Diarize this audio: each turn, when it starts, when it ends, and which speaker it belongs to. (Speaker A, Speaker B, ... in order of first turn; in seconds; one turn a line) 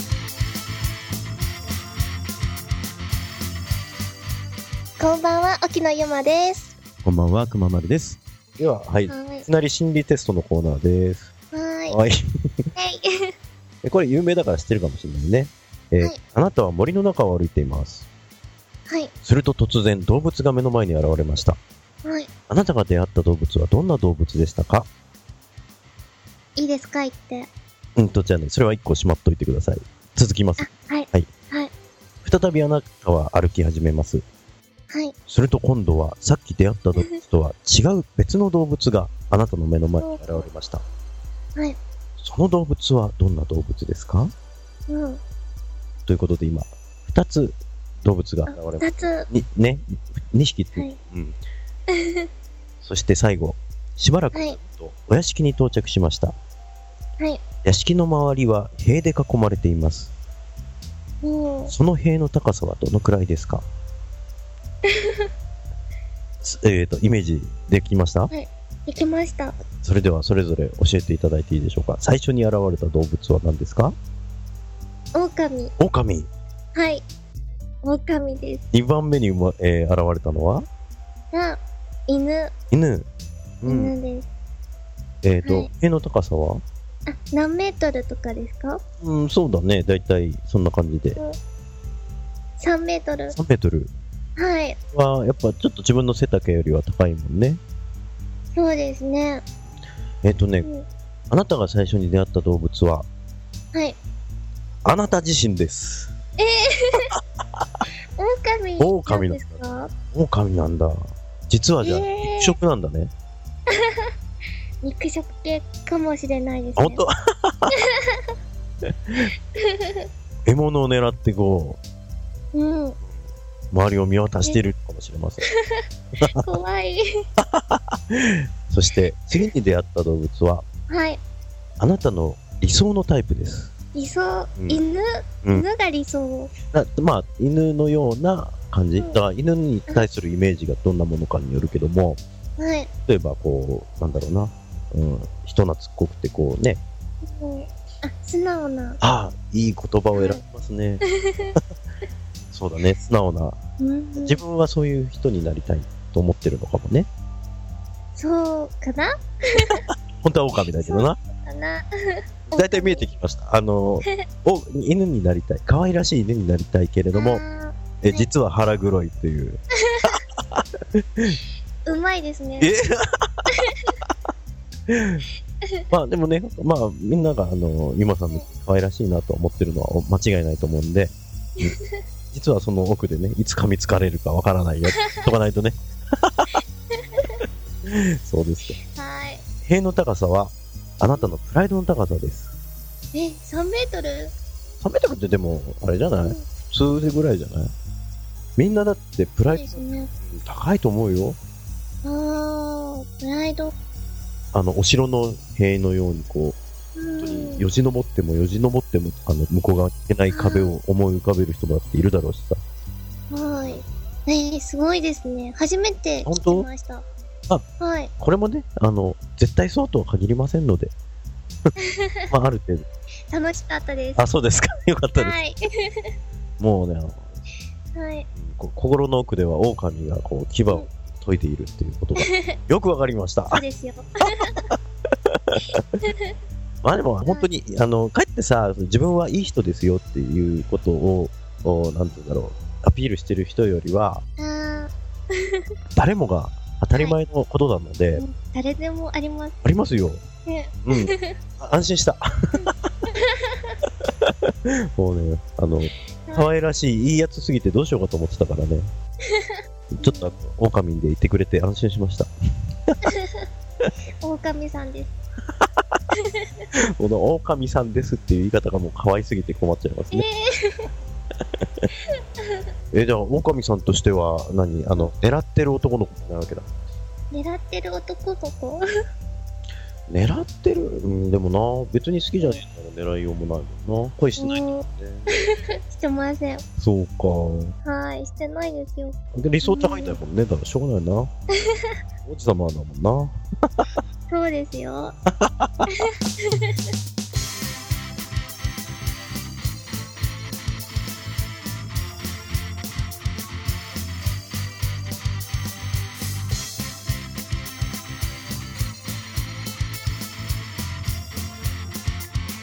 Speaker A: 5.0-6.7
Speaker B: 7.0-11.3
Speaker A: 9.1-9.5
Speaker A: 11.5-12.0
Speaker B: 11.9-12.2
Speaker A: 12.8-13.3
Speaker B: 13.8-18.1
Speaker B: 19.2-21.6
Speaker A: 22.0-22.3
Speaker B: 22.5-24.9
Speaker A: 26.6-27.5
Speaker B: 28.0-31.3
Speaker A: 30.6-31.7
Speaker B: 32.2-34.2
Speaker B: 35.3-40.8
Speaker A: 40.0-40.5
Speaker B: 42.2-44.3
Speaker A: 44.9-45.2
Speaker B: 46.1-51.4
Speaker A: 48.5-49.3
Speaker A: 51.9-52.3
Speaker B: 52.8-56.4
Speaker B: 57.6-60.1
Speaker A: 61.2-61.7
Speaker B: 61.7-63.6
Speaker A: 64.9-65.3
Speaker B: 66.4-68.3
Speaker A: 68.3-69.6
Speaker B: 69.7-74.0
Speaker A: 75.1-75.7
Speaker B: 75.8-76.3
Speaker A: 76.8-77.0
Speaker A: 77.8-78.6
Speaker B: 78.7-80.7
Speaker A: 81.3-82.5
Speaker B: 82.7-83.1
Speaker B: 83.6-83.9
Speaker A: 83.7-84.3
Speaker B: 85.2-86.6
Speaker A: 85.4-85.7
Speaker A: 87.1-88.8
Speaker B: 89.0-91.2
Speaker A: 92.6-93.4
Speaker B: 93.3-93.9
Speaker A: 94.4-94.8
Speaker B: 94.9-97.6
Speaker A: 98.5-99.4
Speaker B: 100.2-100.7
Speaker B: 101.3-103.1
Speaker B: 104.8-106.1
Speaker A: 106.4-107.1
Speaker A: 108.2-109.9
Speaker B: 108.8-109.6
Speaker B: 110.1-113.1
Speaker A: 111.8-112.6
Speaker A: 113.7-114.1
Speaker A: 114.8-117.0
Speaker B: 116.8-117.7
Speaker A: 117.7-118.2
Speaker A: 119.5-120.1
Speaker B: 120.5-121.8
Speaker A: 122.5-123.0
Speaker B: 123.7-125.4
Speaker A: 125.5-127.0
Speaker B: 127.4-130.6
Speaker A: 130.9-131.2
Speaker B: 131.8-133.7
Speaker A: 133.9-136.5
Speaker B: 136.7-142.2
Speaker A: 142.6-142.9
Speaker B: 143.1-146.8
Speaker A: 147.2-149.0
Speaker B: 149.0-151.0
Speaker A: 150.1-150.4
Speaker A: 151.2-151.6
Speaker B: 152.5-153.6
Speaker A: 153.8-154.4
Speaker B: 154.2-157.1
Speaker A: 158.2-159.8
Speaker B: 160.2-161.2
Speaker A: 160.8-163.1
Speaker B: 162.5-167.4
Speaker A: 167.1-168.3
Speaker B: 168.0-169.6
Speaker A: 169.9-170.2
Speaker A: 171.9-172.7
Speaker B: 172.6-173.4
Speaker A: 173.5-173.9
Speaker B: 174.9-175.2
Speaker B: 175.9-181.8
Speaker A: 181.6-182.0
Speaker B: 182.3-186.6
Speaker A: 185.0-185.3
Speaker A: 187.0-187.4
Speaker B: 187.9-188.8
Speaker A: 188.9-189.4
Speaker B: 189.7-192.5
Speaker A: 191.1-191.3
Speaker A: 193.1-194.3
Speaker B: 194.8-197.7
Speaker B: 198.6-201.4
Speaker A: 199.5-200.1
Speaker A: 202.0-203.7
Speaker B: 204.5-206.6
Speaker A: 207.0-207.7
Speaker B: 207.2-212.6
Speaker A: 210.3-210.8
Speaker A: 213.3-217.1
Speaker B: 216.2-216.7
Speaker A: 217.8-218.1
Speaker B: 218.2-220.9
Speaker A: 221.8-222.3
Speaker B: 222.3-222.8
Speaker A: 223.3-224.2
Speaker B: 224.2-225.4
Speaker A: 225.2-226.1
Speaker B: 226.6-227.2
Speaker A: 227.9-228.3
Speaker B: 228.3-233.6
Speaker A: 232.2-232.6
Speaker A: 233.5-234.6
Speaker B: 235.3-235.8
Speaker A: 236.0-236.3
Speaker B: 236.8-244.2
Speaker A: 244.4-245.6
Speaker B: 245.9-248.2
Speaker A: 248.2-249.6
Speaker B: 249.6-250.2
Speaker A: 250.5-251.4
Speaker B: 250.9-252.7
Speaker A: 252.6-253.8
Speaker B: 254.2-258.9
Speaker A: 256.3-256.5
Speaker A: 259.3-260.4
Speaker B: 259.9-262.3
Speaker A: 263.1-263.5
Speaker A: 264.2-265.1
Speaker A: 266.2-266.6
Speaker B: 266.8-270.3
Speaker A: 270.1-270.9
Speaker B: 272.9-276.7
Speaker A: 277.3-278.8
Speaker B: 280.1-285.7
Speaker A: 284.4-286.6
Speaker B: 286.8-287.7
Speaker A: 287.9-290.2
Speaker B: 289.4-291.3
Speaker A: 291.6-292.0
Speaker B: 292.2-293.9
Speaker A: 294.3-295.1
Speaker B: 295.3-296.1
Speaker A: 296.0-296.9